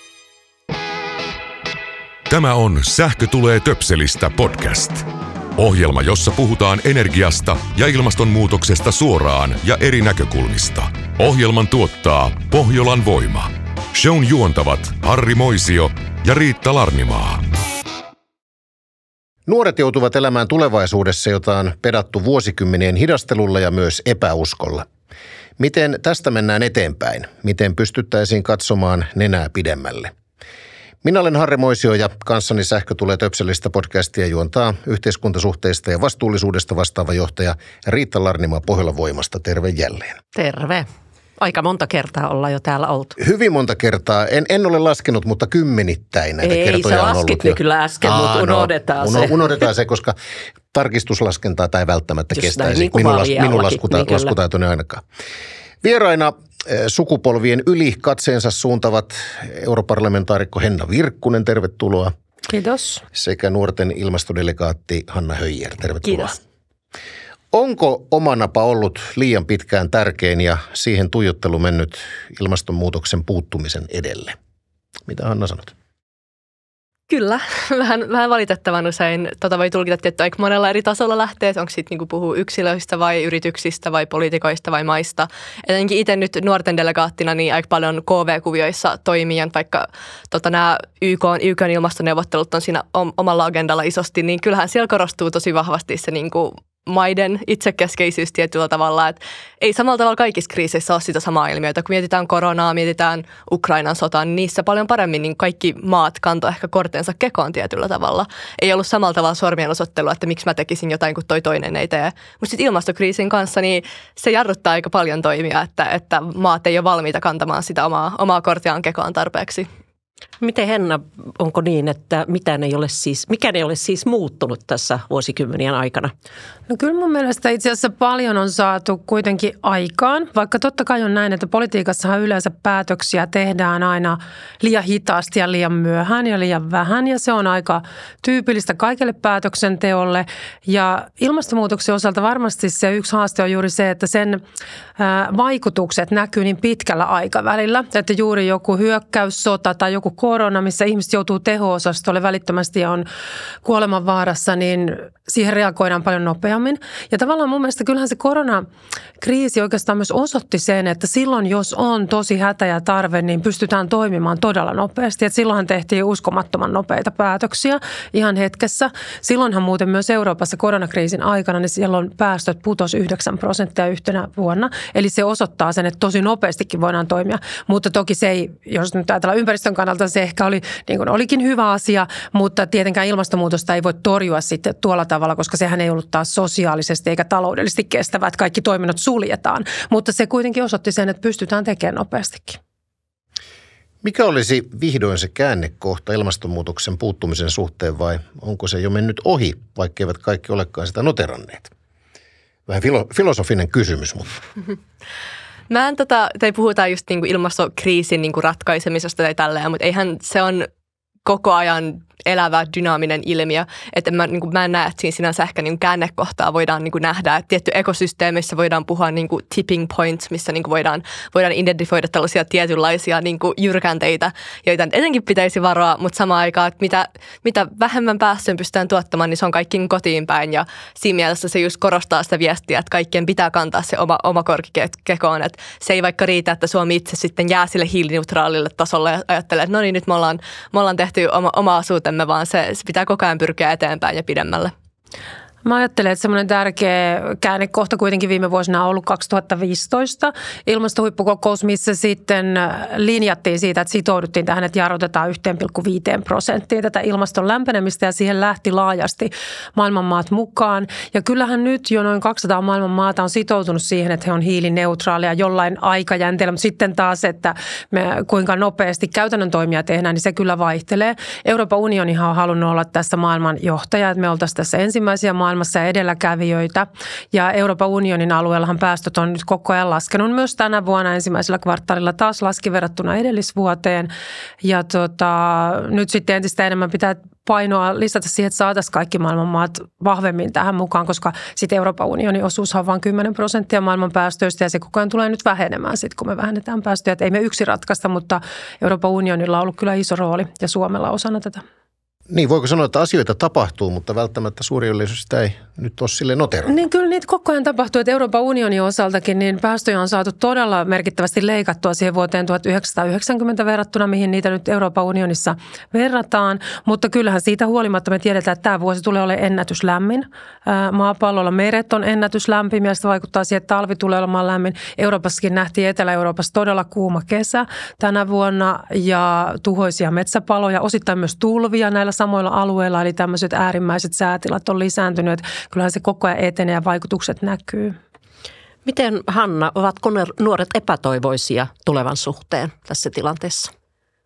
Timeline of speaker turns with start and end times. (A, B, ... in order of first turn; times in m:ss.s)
0:02.3-0:17.4 A
0:19.4-0:24.8 B
0:25.6-0:30.1 B
0:31.0-0:40.2 B
0:40.3-0:40.8 C
0:41.4-0:43.2 C
0:43.2-0:50.2 B
0:46.4-0:49.4 C
0:50.7-0:55.0 B
0:52.3-0:54.3 C
0:55.8-1:02.1 B
1:02.5-1:03.0 D
1:03.1-1:06.4 B
1:06.1-1:06.3 E
1:07.5-1:14.4 B
1:15.0-1:15.7 B
1:17.1-1:59.7 E
2:00.4-2:06.1 C
2:06.7-2:24.4 D
2:25.0-2:33.1 D
2:33.6-2:38.6 D
2:39.2-3:12.6 D
3:14.0-3:21.7 B
3:22.7-3:24.4 B
3:25.7-3:30.7 E
3:31.2-4:04.7 E
4:05.6-4:44.1 D
4:44.6-5:01.6 D
5:02.3-5:06.7 B
5:06.7-5:38.0 D
5:38.8-5:43.7 C